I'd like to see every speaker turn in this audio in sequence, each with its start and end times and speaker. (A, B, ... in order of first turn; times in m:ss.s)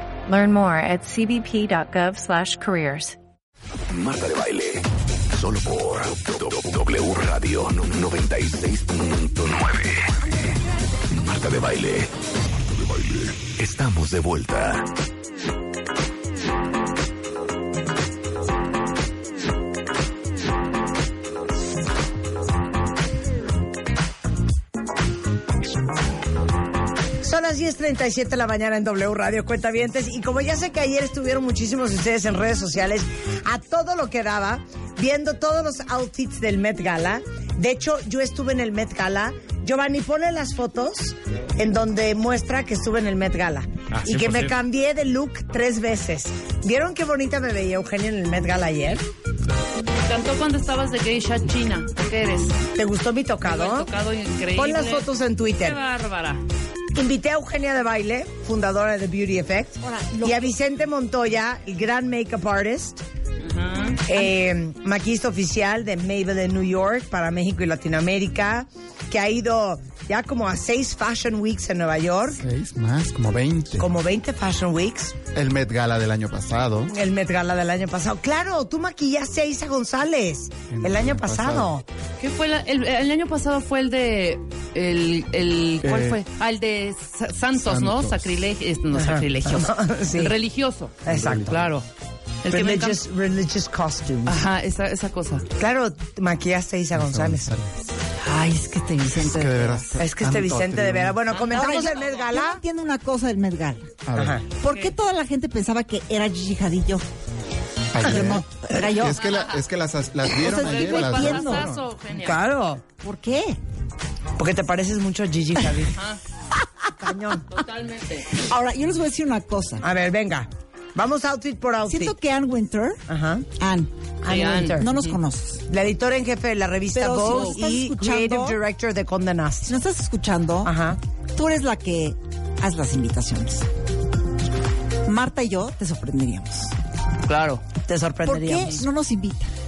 0:00.2-0:03.2 A
0:03.9-0:10.1 B
0:11.1-0:12.1 B
0:12.7-0:14.9 B
0:27.2-0:49.0 C
0:50.0-0:52.6 D
0:52.7-0:53.9 C
0:53.4-0:56.4 D
0:54.6-0:55.8 C
0:56.9-1:03.0 C
0:59.8-1:00.5 E
1:03.4-1:04.0 D
1:04.0-1:12.4 C
1:12.4-1:13.9 F
1:13.8-1:15.2 C
1:15.3-1:16.9 F
1:16.9-1:21.8 C
1:20.7-1:21.7 F
1:22.2-1:31.8 D
1:25.8-1:26.2 F
1:27.6-1:28.3 F
1:28.9-1:30.3 C
1:31.0-1:31.5 C
1:31.1-1:31.7 F
1:32.4-1:33.0 D
1:32.5-1:34.4 C
1:34.2-1:35.4 D
1:35.6-1:37.5 C
1:36.9-1:37.7 F
1:38.2-1:40.0 E
1:39.1-1:41.2 F
1:40.0-1:42.6 C
1:41.3-1:42.3 D
1:41.5-1:44.0 E
1:44.1-1:44.4 F
1:44.2-1:44.4 C
1:44.6-1:47.0 E
1:44.6-1:44.9 D
1:47.9-1:51.8 F
1:48.0-1:49.2 E
1:49.2-1:49.6 D
1:50.3-1:51.7 E
1:50.4-1:52.4 D
1:52.1-1:52.8 C
1:53.0-1:53.6 E
1:54.4-1:55.9 C
1:55.9-1:56.2 D
1:57.0-1:57.4 C
1:57.5-1:58.4 D
1:58.3-1:59.8 E
1:59.8-2:02.1 C
2:01.8-2:03.0 E
2:03.1-2:03.5 C
2:03.5-2:03.9 E
2:04.2-2:04.9 C
2:04.3-2:05.2 D
2:04.8-2:05.6 E
2:05.7-2:09.7 C
2:06.9-2:08.6 E
2:09.6-2:10.7 E
2:10.6-2:11.0 C
2:11.3-2:13.7 E
2:15.0-2:16.7 E
2:17.2-2:17.6 D
2:17.8-2:18.8 C
2:18.2-2:19.5 E